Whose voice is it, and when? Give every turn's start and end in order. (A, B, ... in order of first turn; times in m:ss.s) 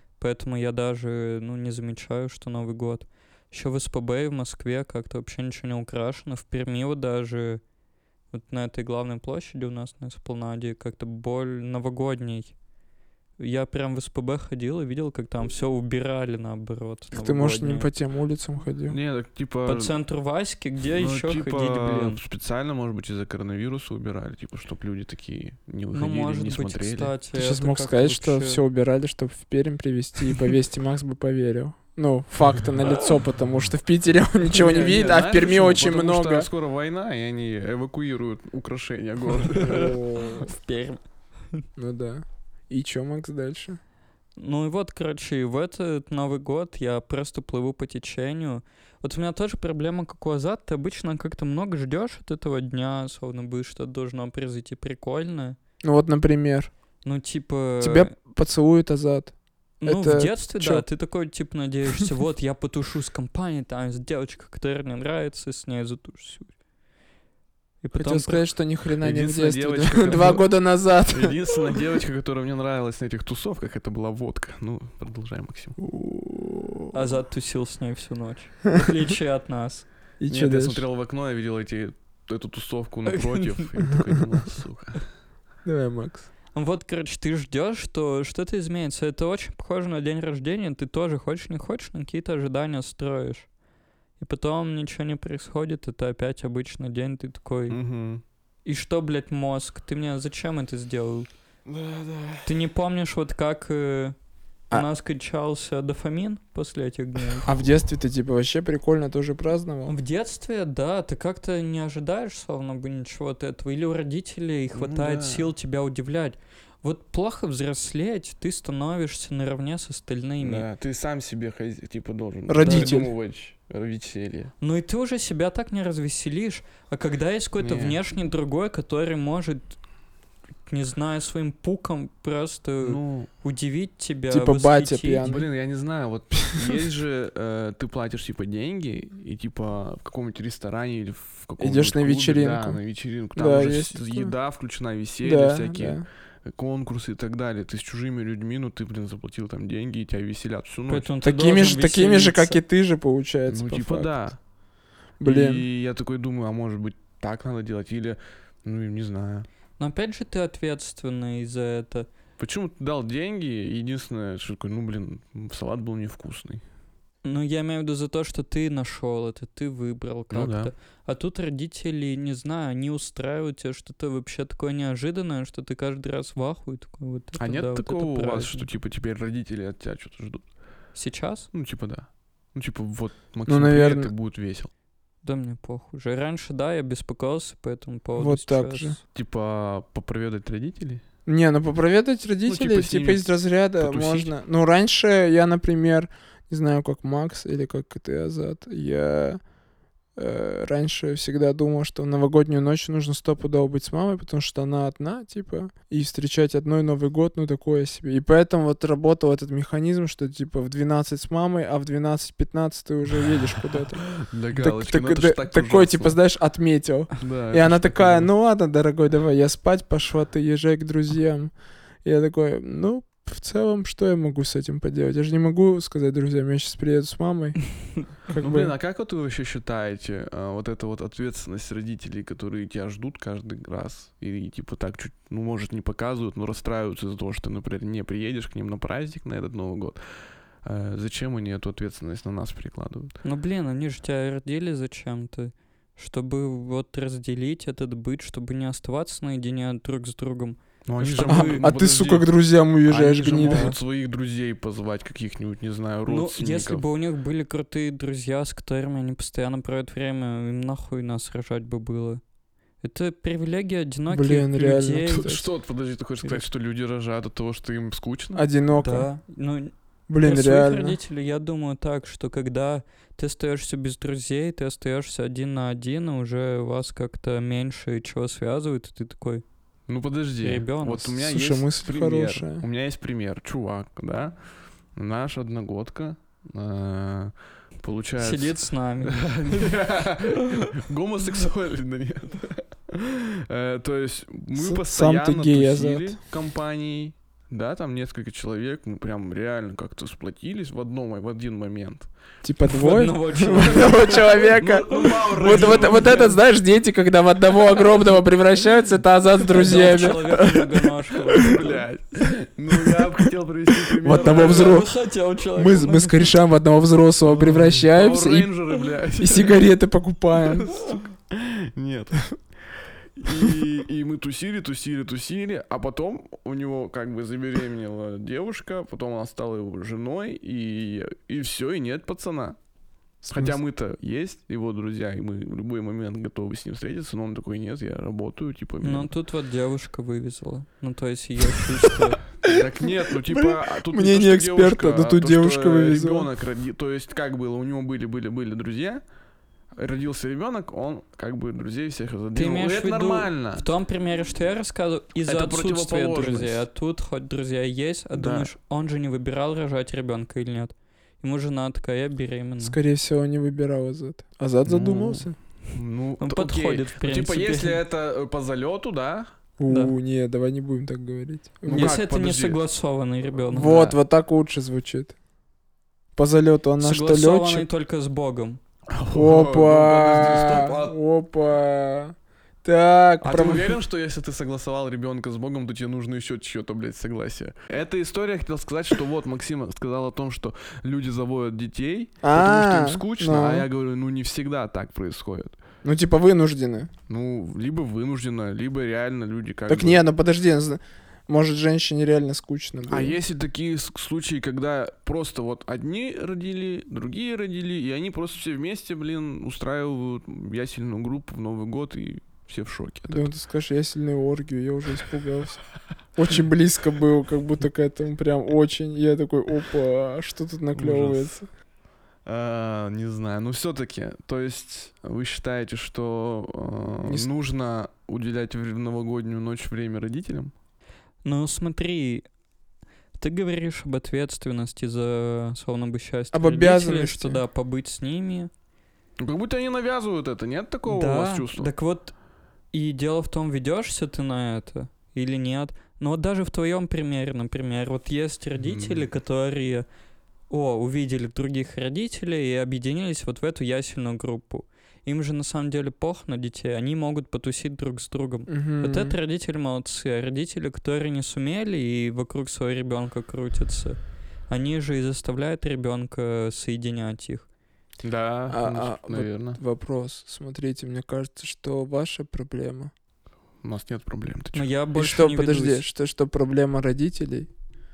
0:00.2-0:07.6 A
0:08.3-0:12.6 A
0:13.4-0:17.9 A
0:17.1-0:19.0 B
0:18.9-0:19.9 C
0:19.7-0:22.2 A
0:20.9-0:27.1 C
0:25.9-0:28.6 A
0:27.4-0:36.5 B
0:34.5-0:40.0 C
0:39.5-0:41.0 A
0:39.6-0:40.5 B
0:41.8-0:43.8 B
0:44.4-0:55.6 A
0:55.8-0:56.7 B
0:57.0-0:58.1 A
0:57.8-1:00.8 B
0:59.8-1:06.5 A
1:07.8-1:08.4 A
1:08.0-1:11.7 B
1:09.0-1:10.5 C
1:11.1-1:15.8 C
1:15.8-1:17.0 B
1:16.9-1:19.9 A
1:20.2-1:20.8 B
1:20.3-1:25.0 C
1:23.1-1:23.7 A
1:25.6-1:26.3 B
1:26.5-1:33.5 A
1:34.2-1:37.8 A
1:37.7-1:38.2 C
1:38.6-1:41.3 A
1:41.7-1:42.5 C
1:42.4-1:44.2 A
1:44.7-1:47.5 A
1:47.4-1:49.9 B
1:49.9-2:00.7 A
1:54.7-1:55.5 C
2:00.4-2:04.5 C
2:02.5-2:03.1 B
2:02.6-2:03.0 A
2:04.6-2:09.8 A
2:07.6-2:08.0 C
2:10.7-2:15.3 A
2:12.8-2:13.3 C
2:14.3-2:15.5 B
2:15.2-2:31.1 C
2:21.6-2:22.8 B
2:23.4-2:24.3 B
2:25.2-2:26.1 B
2:30.9-2:32.6 A
2:31.2-2:34.3 B
2:33.5-2:34.4 C
2:35.2-2:35.6 B
2:35.2-2:39.5 C
2:39.8-2:42.1 A
2:42.4-2:46.6 C
2:47.2-2:58.7 A
2:50.3-2:50.7 C
2:57.4-3:00.4 C
3:01.0-3:01.5 A
3:01.5-3:04.7 C
3:03.5-3:04.1 B
3:05.2-3:09.0 A
3:08.2-3:09.0 B
3:09.1-3:11.0 C
3:11.3-3:19.4 B
3:12.5-3:13.2 C
3:13.8-3:14.3 C
3:20.2-3:41.5 B
3:34.1-3:36.2 C
3:37.2-3:38.3 C
3:42.0-3:48.7 B
3:48.4-4:03.2 C
4:03.2-4:11.7 A
4:10.9-4:12.3 C
4:11.3-4:13.7 B
4:12.9-4:16.8 C
4:13.5-4:13.8 A
4:16.1-4:22.2 A
4:22.8-4:25.4 A
4:24.1-4:25.4 B
4:25.1-4:28.4 C
4:28.4-4:29.1 B
4:28.8-4:39.4 A
4:30.1-4:31.0 B
4:39.9-4:44.4 C
4:40.4-4:41.2 A
4:41.2-4:42.6 B
4:45.0-5:02.1 C
4:48.2-4:49.8 A
4:54.6-4:56.2 B
5:02.4-5:11.6 B
5:02.7-5:06.3 A
5:03.8-5:06.4 C
5:09.4-5:11.8 A
5:11.4-5:14.9 C
5:14.0-5:14.9 B
5:14.2-5:16.3 A
5:15.6-5:18.5 B
5:17.2-5:19.6 C
5:19.2-5:20.8 B
5:20.7-5:22.2 C
5:23.2-5:32.6 C
5:33.3-5:33.6 B
5:33.3-5:39.1 C
5:38.8-5:42.2 A
5:42.4-5:49.0 C
5:42.4-5:46.3 B
5:49.8-5:53.7 C
5:52.4-6:02.8 A
5:55.3-5:56.6 C
5:58.1-5:58.5 C
6:02.6-6:05.4 B
6:04.7-6:09.3 C
6:06.2-6:07.8 A
6:09.6-6:11.9 B
6:09.7-6:09.9 A
6:11.7-6:13.9 A
6:11.7-6:12.6 C
6:13.5-6:15.2 B
6:13.6-6:14.0 C
6:16.2-6:17.7 B
6:16.8-6:18.6 A
6:18.9-6:21.0 C
6:19.1-6:23.8 B
6:23.2-6:35.6 C
6:32.2-6:33.7 B
6:35.8-6:36.9 B
6:37.1-6:40.0 C
6:39.7-6:43.2 B
6:42.9-6:53.3 C
6:53.1-6:55.6 B
6:56.2-7:01.5 B
7:00.8-7:01.4 C
7:02.2-7:10.5 C
7:11.2-7:12.2 A
7:13.2-7:18.5 A
7:16.3-7:17.4 B
7:19.2-7:21.7 C
7:20.9-7:22.1 A
7:22.7-7:29.9 A
7:28.6-7:29.1 C
7:30.5-7:47.5 A
7:38.5-7:39.2 B
7:48.0-7:49.6 C
7:48.5-7:52.9 B
7:53.6-7:54.7 C
7:54.5-7:55.8 A
7:55.0-7:57.5 B